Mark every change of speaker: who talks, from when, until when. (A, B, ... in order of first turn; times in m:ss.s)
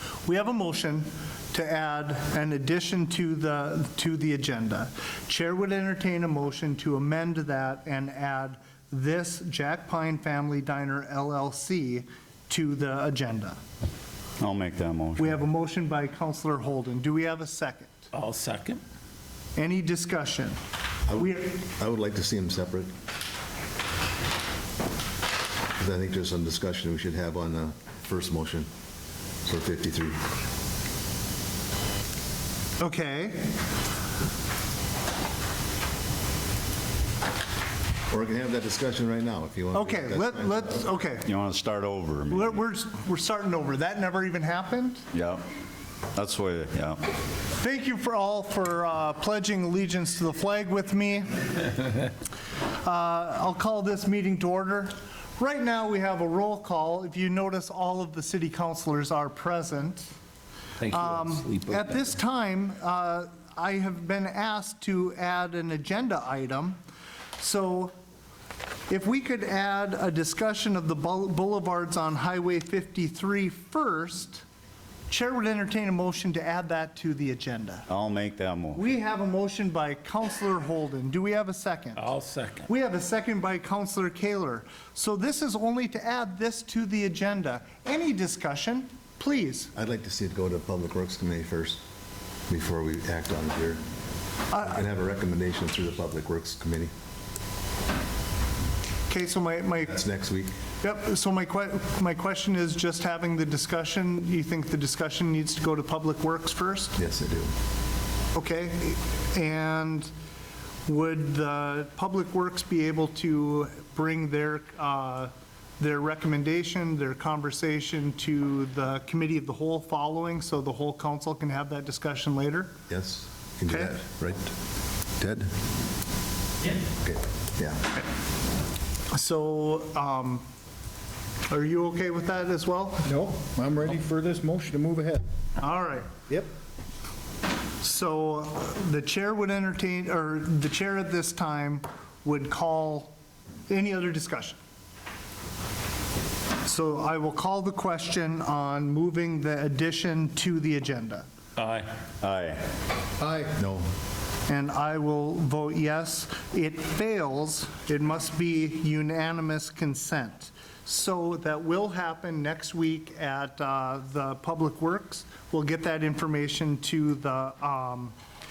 0:00.2-0:13.6 A
0:14.4-0:15.3 B
0:15.2-0:18.1 A
0:18.1-0:18.8 C
0:19.6-0:20.6 A
0:21.1-0:22.9 D
0:21.1-0:21.6 A
0:25.8-0:28.7 D
0:29.4-0:30.2 D
0:32.8-0:33.5 A
0:38.1-0:40.9 D
0:39.7-0:41.3 A
0:41.2-0:42.6 B
0:42.3-0:45.0 A
0:45.1-0:45.4 B
0:46.1-0:47.0 B
0:47.6-0:51.4 A
0:52.8-1:00.1 A
1:00.8-1:01.8 C
1:00.9-1:06.8 A
1:07.4-1:07.9 A
1:08.9-1:14.4 A
1:15.1-1:17.9 A
1:17.9-1:18.8 B
1:18.7-1:22.1 A
1:22.0-1:22.7 C
1:22.7-1:29.7 A
1:29.7-1:31.8 D
1:32.5-1:33.8 D
1:34.5-1:34.8 A
1:34.7-1:36.9 D
1:39.1-1:40.0 A
1:39.9-1:40.6 D
1:40.8-1:47.0 A
1:47.0-1:47.5 D
1:48.3-1:50.1 A
1:50.9-2:02.8 A
2:02.9-2:04.5 D
2:03.7-2:04.0 A
2:05.2-2:05.5 D
2:07.0-2:07.8 D
2:09.1-2:10.4 A
2:11.5-2:13.1 A
2:13.0-2:15.2 E
2:15.6-2:16.2 A
2:17.8-2:23.1 A
2:23.7-2:24.6 A
2:26.6-2:31.3 A
2:31.6-2:31.9 C
2:32.2-2:32.6 B
2:33.2-2:33.5 A
2:33.6-2:33.9 D
2:34.5-2:48.2 A